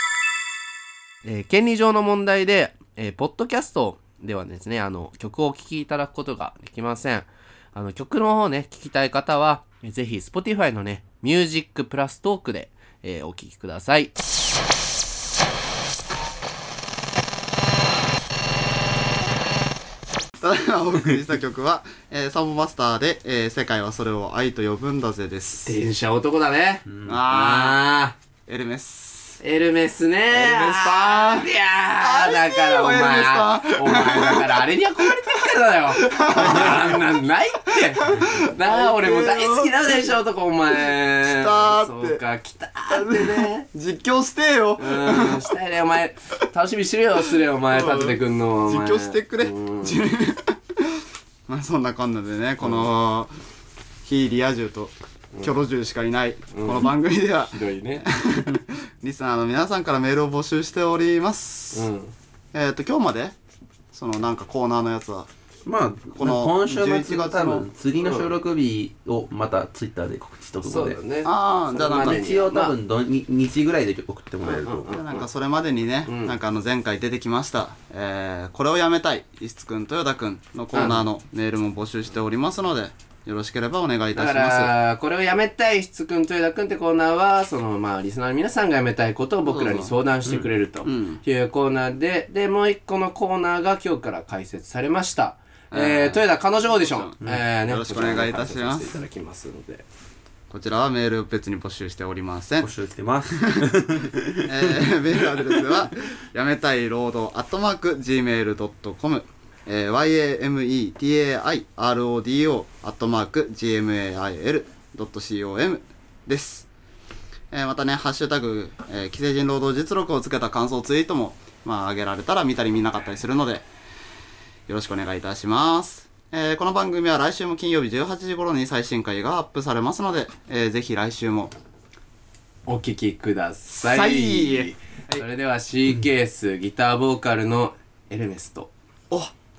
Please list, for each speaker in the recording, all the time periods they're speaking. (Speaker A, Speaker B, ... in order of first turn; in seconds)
Speaker A: 1.2-14.1, 25.6-28.2, 29.4-43.7, 44.8-50.0, 52.6-52.9, 56.5-57.0, 57.5-58.1, 61.7-62.1, 68.0-68.3, 70.6-72.8, 74.5-75.3, 76.1-76.4, 80.7-81.0, 84.2-99.9, 132.7-138.7
Speaker B: 20.4-25.7, 27.0-27.8, 28.5-29.4, 30.3-35.1, 36.0-37.0, 38.0-39.9, 41.2-42.2, 42.9-45.5, 47.7-53.3, 54.0-61.9, 62.5-63.4, 63.9-65.3, 66.2-67.7, 71.2-72.2, 74.5-84.7, 89.5-90.0, 90.8-91.2, 95.7-98.9, 100.5-102.7, 103.4-103.7, 104.3-116.7, 117.5-123.7, 124.7-131.5, 133.8-135.2
Speaker C: 26.9-27.2, 65.7-71.0, 71.9-75.0, 102.6-104.8